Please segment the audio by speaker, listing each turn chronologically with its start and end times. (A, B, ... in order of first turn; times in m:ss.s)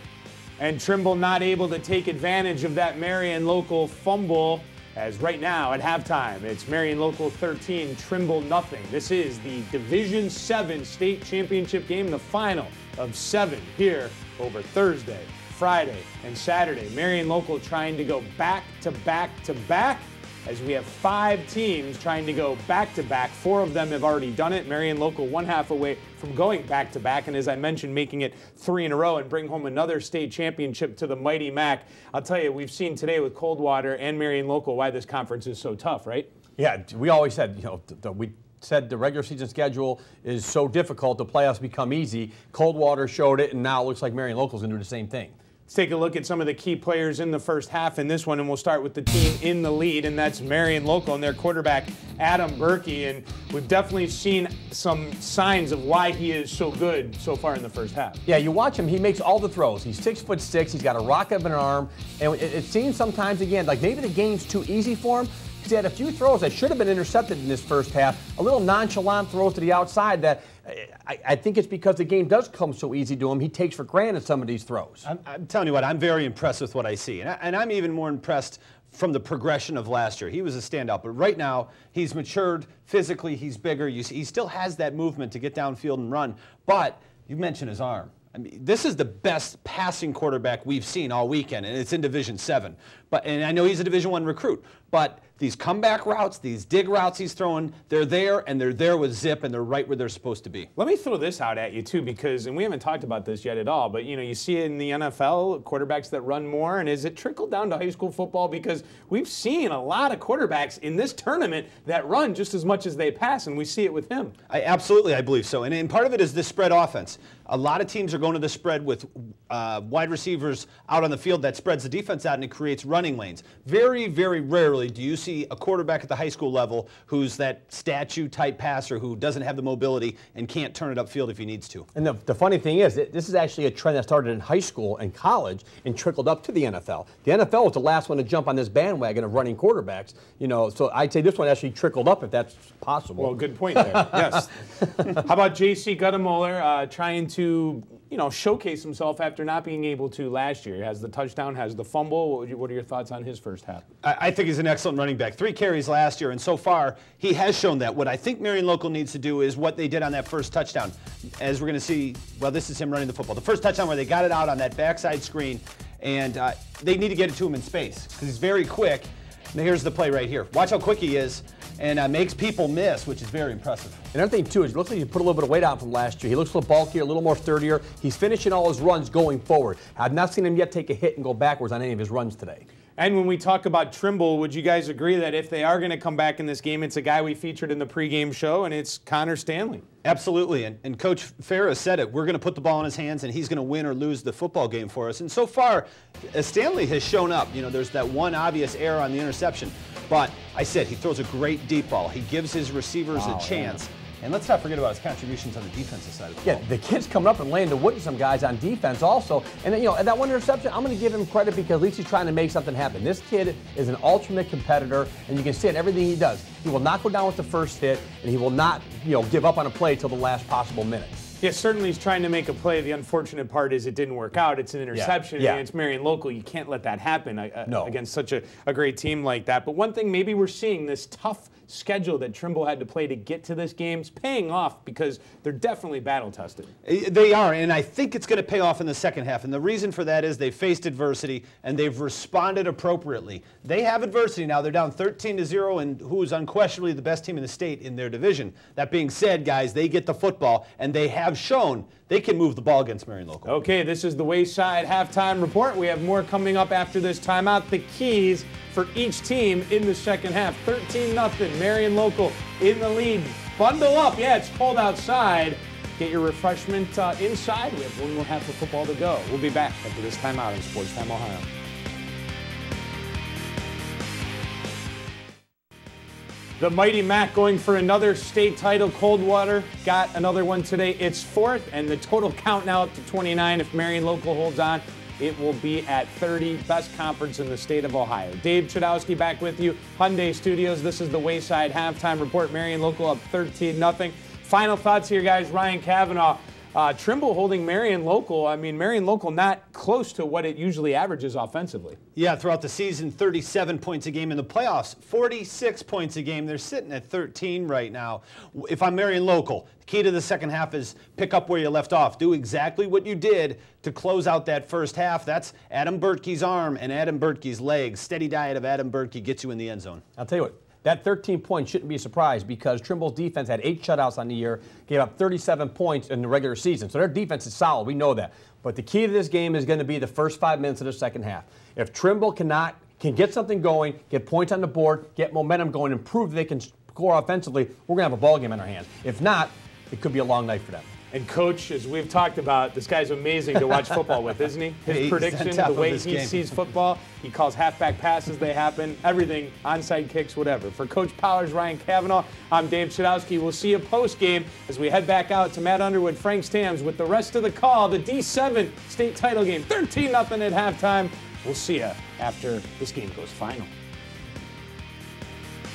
0:00.6-0:36.3 A
0:36.6-0:45.4 B
0:45.7-0:58.2 A
0:58.2-1:15.0 B
1:15.0-1:40.7 C
1:40.8-1:54.3 A
1:54.5-2:11.9 C
2:11.9-2:24.4 B
2:23.2-2:33.8 A
2:34.0-2:54.0 C
2:54.1-3:02.7 B
3:03.0-3:09.8 A
3:10.0-3:26.6 C
3:23.1-3:23.8 B
3:26.4-3:41.2 B
3:41.4-3:56.7 A
3:44.9-3:45.6 B
3:47.7-3:47.9 B
3:56.8-4:13.6 C
4:13.4-4:31.5 A
4:36.6-5:02.0 A
5:02.2-5:20.0 C
5:20.2-5:40.9 B
5:41.1-6:03.7 A
5:44.8-5:46.5 C